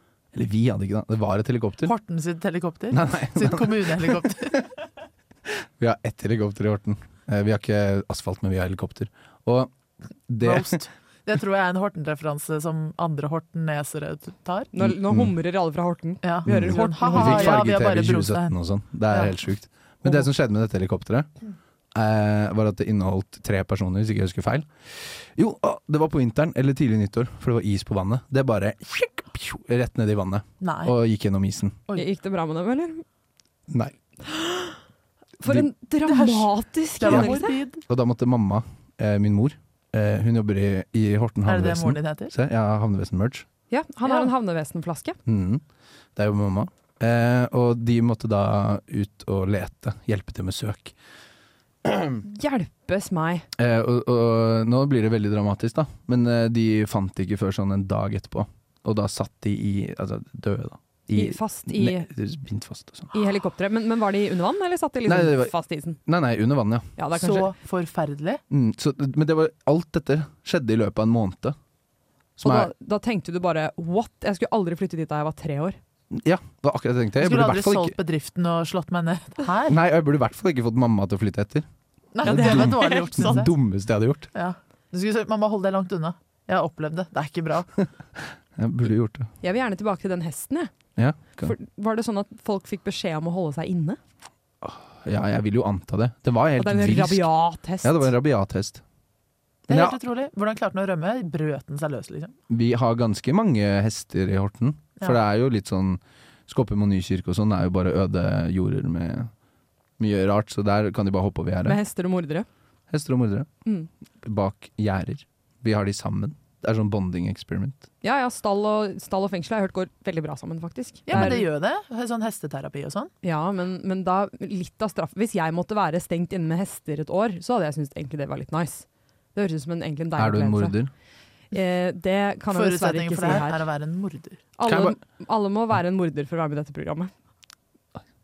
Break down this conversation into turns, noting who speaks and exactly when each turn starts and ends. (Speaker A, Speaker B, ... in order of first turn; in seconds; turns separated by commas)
Speaker A: 0.3-1.9, Speaker B: 1.8-4.7, Speaker A: 2.9-4.6, Speaker A: 5.5-9.7, Speaker A: 10.3-10.8, Speaker B: 10.4-14.7, Speaker C: 14.7-17.6, Speaker A: 14.8-15.3, Speaker B: 16.2-18.6, Speaker A: 16.5-21.3, Speaker B: 19.1-19.4, Speaker A: 21.9-31.8, Speaker B: 30.6-30.9, Speaker C: 31.9-33.0, Speaker A: 33.7-33.9, Speaker C: 34.2-34.8, Speaker C: 35.4-37.5, Speaker A: 35.4-35.7, Speaker B: 36.0-37.8, Speaker A: 37.0-43.5, Speaker B: 41.5-42.3, Speaker C: 43.7-45.2, Speaker B: 44.0-44.3, Speaker A: 45.2-45.6, Speaker A: 46.1-50.9, Speaker A: 51.8-52.1, Speaker C: 52.2-53.4, Speaker A: 53.5-63.1, Speaker C: 61.1-62.1, Speaker C: 63.1-66.0, Speaker A: 65.0-65.5, Speaker A: 66.0-66.9, Speaker C: 67.0-67.5, Speaker B: 67.2-68.4, Speaker A: 68.5-71.5, Speaker A: 72.4-72.7, Speaker C: 72.4-75.8, Speaker A: 76.1-78.0, Speaker B: 77.2-79.8, Speaker A: 79.7-81.7, Speaker B: 82.1-83.5, Speaker C: 82.2-83.4, Speaker A: 82.2-84.3, Speaker B: 84.3-87.7, Speaker A: 88.2-89.3, Speaker C: 89.4-90.7, Speaker A: 91.0-91.5, Speaker C: 91.4-94.0, Speaker A: 94.6-97.2, Speaker C: 96.6-98.1, Speaker A: 97.8-98.8, Speaker A: 99.7-100.0, Speaker B: 99.7-102.3, Speaker A: 102.5-109.3, Speaker A: 110.0-111.8, Speaker C: 111.6-112.5, Speaker A: 112.9-113.5, Speaker A: 114.2-117.8, Speaker C: 118.0-121.4, Speaker B: 121.1-123.1, Speaker C: 123.2-130.8, Speaker A: 130.2-130.9, Speaker C: 131.5-133.6, Speaker B: 132.5-134.4, Speaker C: 134.6-137.1, Speaker A: 134.7-135.0